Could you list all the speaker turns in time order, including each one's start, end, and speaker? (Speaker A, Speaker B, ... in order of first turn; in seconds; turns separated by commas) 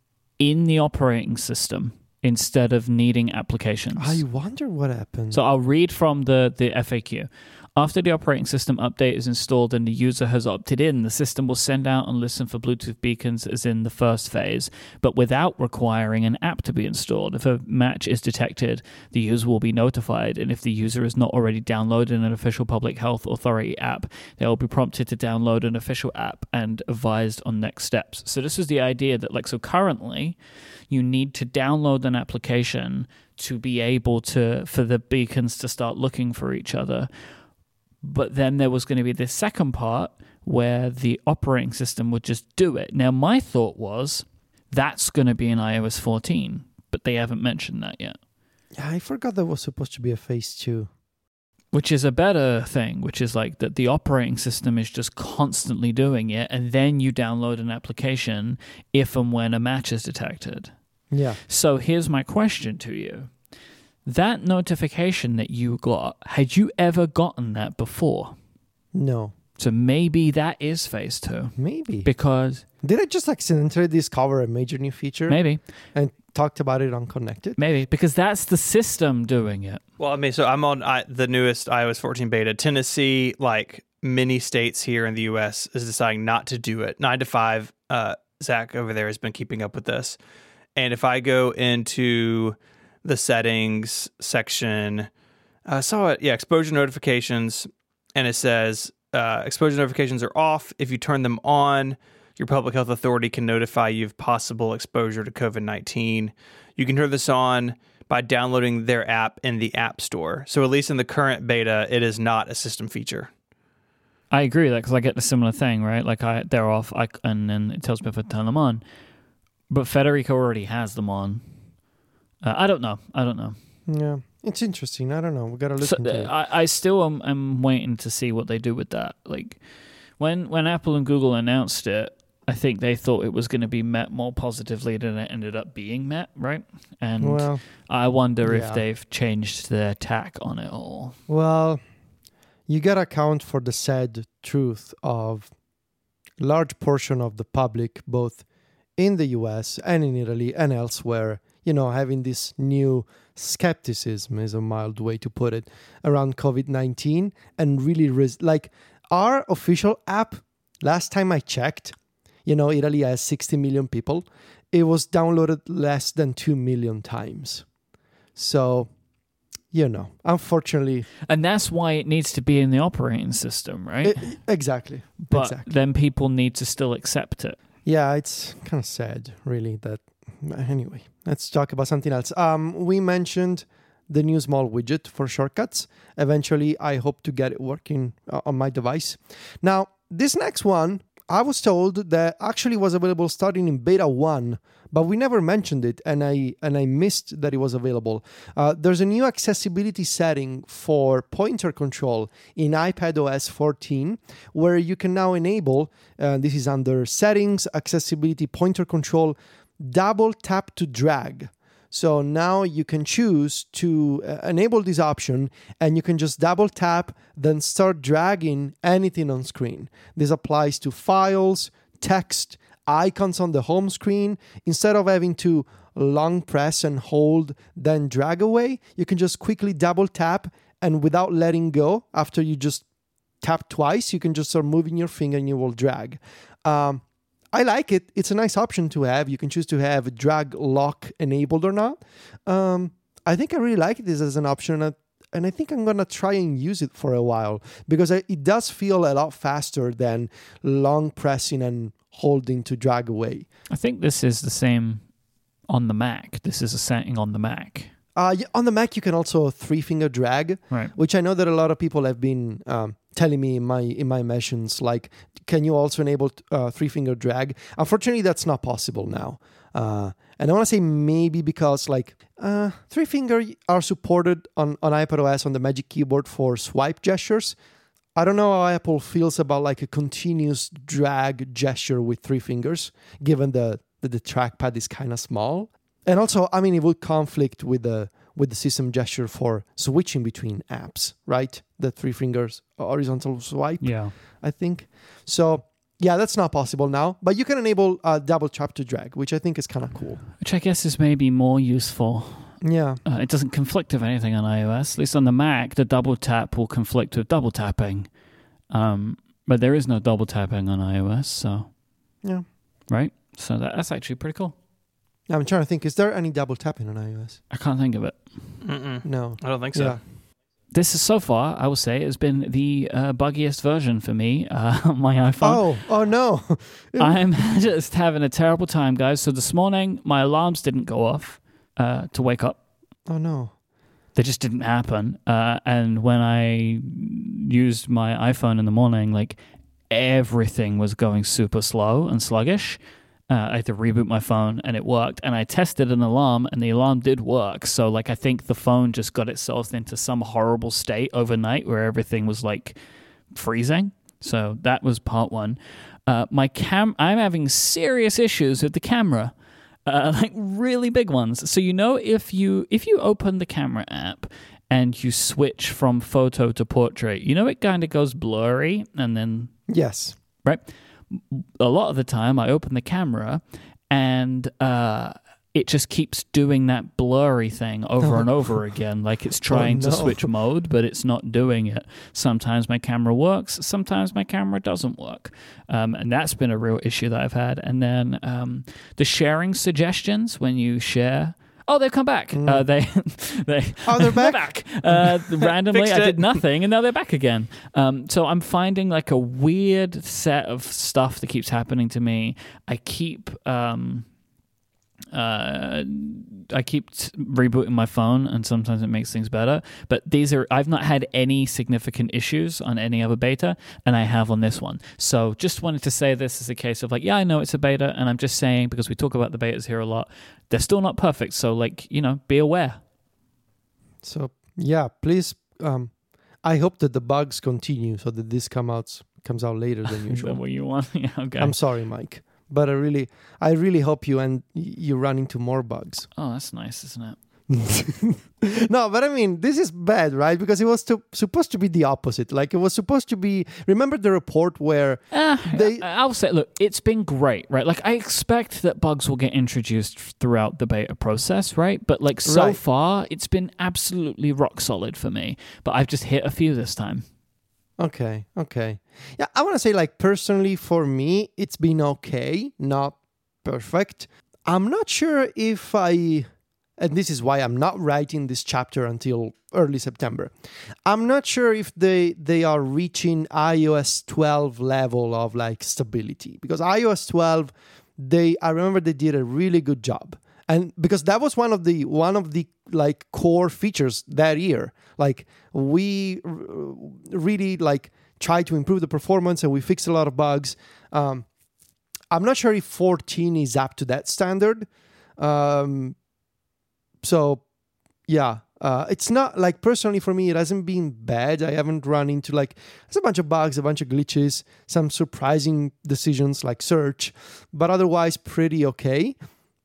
Speaker A: 0.4-4.2, Speaker B: 4.0-5.4, Speaker A: 5.3-30.4, Speaker A: 30.9-37.1, Speaker A: 38.0-48.2, Speaker B: 48.7-50.9, Speaker A: 51.7-60.7, Speaker B: 61.1-61.4, Speaker A: 61.5-63.3, Speaker A: 64.0-68.4, Speaker B: 68.9-69.3, Speaker A: 69.6-72.6, Speaker B: 71.6-72.1, Speaker B: 72.8-75.4, Speaker A: 75.3-75.6, Speaker B: 75.9-77.6, Speaker A: 77.6-79.8, Speaker C: 80.0-90.2, Speaker C: 90.8-95.1, Speaker C: 95.7-113.3, Speaker A: 114.3-118.8, Speaker A: 119.7-121.4, Speaker A: 122.4-123.6, Speaker B: 123.9-126.3, Speaker A: 125.8-129.6, Speaker A: 130.2-141.2, Speaker B: 137.2-137.6, Speaker B: 138.4-138.8, Speaker B: 141.3-141.8, Speaker B: 142.7-145.5, Speaker B: 146.4-148.4, Speaker B: 149.0-167.7, Speaker B: 168.3-168.9, Speaker B: 169.7-171.1, Speaker A: 171.3-174.3, Speaker B: 174.0-175.7, Speaker A: 175.2-177.6, Speaker B: 177.8-232.8, Speaker B: 233.4-253.5, Speaker A: 253.7-255.1, Speaker A: 255.7-257.9, Speaker B: 258.1-277.6, Speaker B: 278.1-300.2, Speaker A: 293.8-294.1, Speaker A: 300.4-308.1, Speaker B: 302.6-303.0, Speaker A: 308.7-311.7, Speaker A: 312.9-314.6, Speaker B: 315.3-317.4, Speaker A: 317.5-318.6, Speaker C: 318.6-320.0, Speaker B: 319.0-320.0, Speaker A: 320.7-325.6, Speaker B: 325.4-327.2, Speaker A: 327.0-332.6, Speaker B: 333.1-333.5, Speaker A: 334.1-339.4, Speaker A: 339.9-352.8, Speaker A: 353.3-359.3, Speaker A: 359.9-369.5, Speaker B: 369.7-370.2, Speaker A: 370.4-404.1, Speaker B: 379.5-380.3, Speaker B: 392.3-392.6, Speaker B: 393.9-395.1, Speaker C: 395.7-396.4, Speaker A: 405.1-422.8, Speaker B: 424.0-430.4, Speaker A: 429.9-431.6, Speaker B: 431.4-436.1, Speaker A: 436.1-437.2, Speaker B: 437.5-445.9, Speaker A: 445.1-457.1, Speaker B: 452.3-452.6, Speaker B: 457.8-470.3, Speaker B: 470.9-491.3, Speaker B: 492.1-496.0, Speaker B: 497.0-497.4, Speaker B: 498.1-509.1